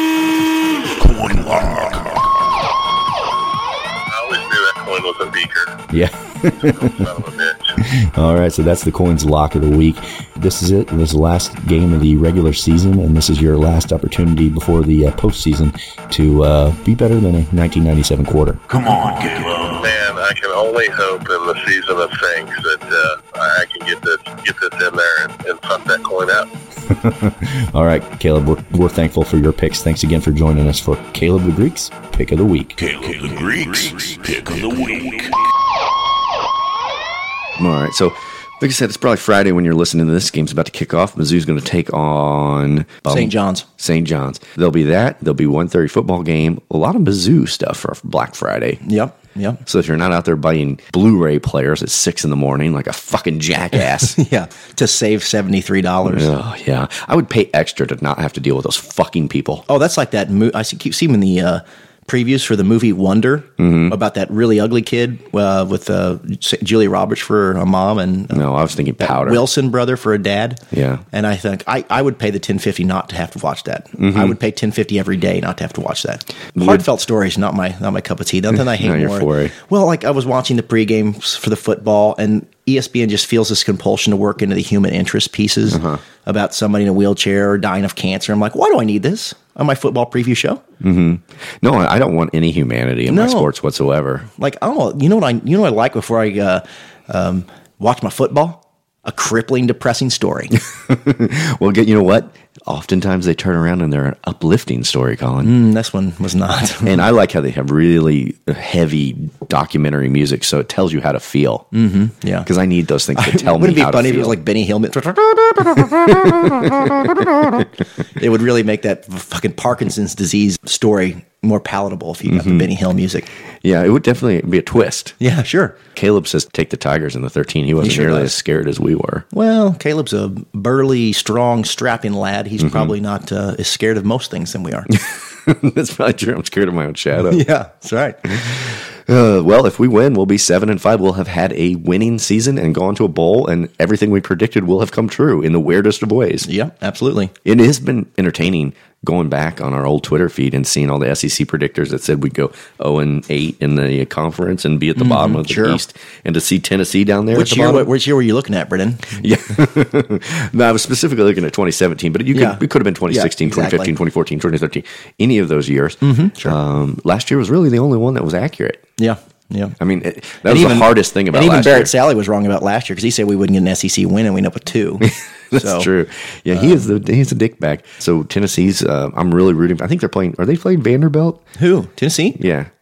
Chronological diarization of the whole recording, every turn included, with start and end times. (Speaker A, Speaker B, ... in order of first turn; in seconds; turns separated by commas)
Speaker A: 1.0-2.3, Speaker B: 4.1-5.8, Speaker C: 5.9-7.1, Speaker B: 6.6-7.8, Speaker C: 7.8-18.6, Speaker A: 18.7-19.9, Speaker B: 19.8-26.5, Speaker C: 26.9-32.8, Speaker A: 32.8-35.4, Speaker D: 37.6-48.8, Speaker E: 43.1-43.7, Speaker E: 48.9-49.6, Speaker D: 49.7-54.2, Speaker E: 53.9-56.3, Speaker D: 56.1-59.6, Speaker E: 59.7-68.4, Speaker D: 63.6-64.0, Speaker D: 68.3-69.4, Speaker E: 69.0-70.6, Speaker D: 70.7-71.0, Speaker E: 71.1-90.6, Speaker D: 74.0-74.4, Speaker D: 76.5-76.9, Speaker D: 78.5-79.5, Speaker D: 85.7-86.0, Speaker D: 90.8-94.3, Speaker E: 93.1-93.5, Speaker E: 94.4-100.5, Speaker D: 100.8-105.6, Speaker E: 105.4-107.0, Speaker D: 106.8-111.7, Speaker E: 111.7-112.5, Speaker D: 112.5-114.4, Speaker E: 113.2-117.6, Speaker D: 116.1-117.0, Speaker E: 118.2-123.3, Speaker D: 122.3-122.7, Speaker D: 123.6-125.2, Speaker E: 125.2-125.8, Speaker D: 126.0-129.3, Speaker E: 127.8-128.3, Speaker E: 129.3-134.9, Speaker D: 132.6-132.9, Speaker D: 134.9-137.4, Speaker E: 137.2-138.4, Speaker D: 138.3-146.5, Speaker E: 146.5-147.3, Speaker D: 147.4-157.9, Speaker E: 155.0-155.8, Speaker E: 157.3-159.2, Speaker D: 159.2-168.8, Speaker E: 162.3-163.9, Speaker E: 166.0-166.6, Speaker E: 169.0-169.8, Speaker D: 169.8-171.9, Speaker E: 170.5-175.9, Speaker D: 175.0-181.5, Speaker E: 181.6-182.4, Speaker D: 182.4-182.7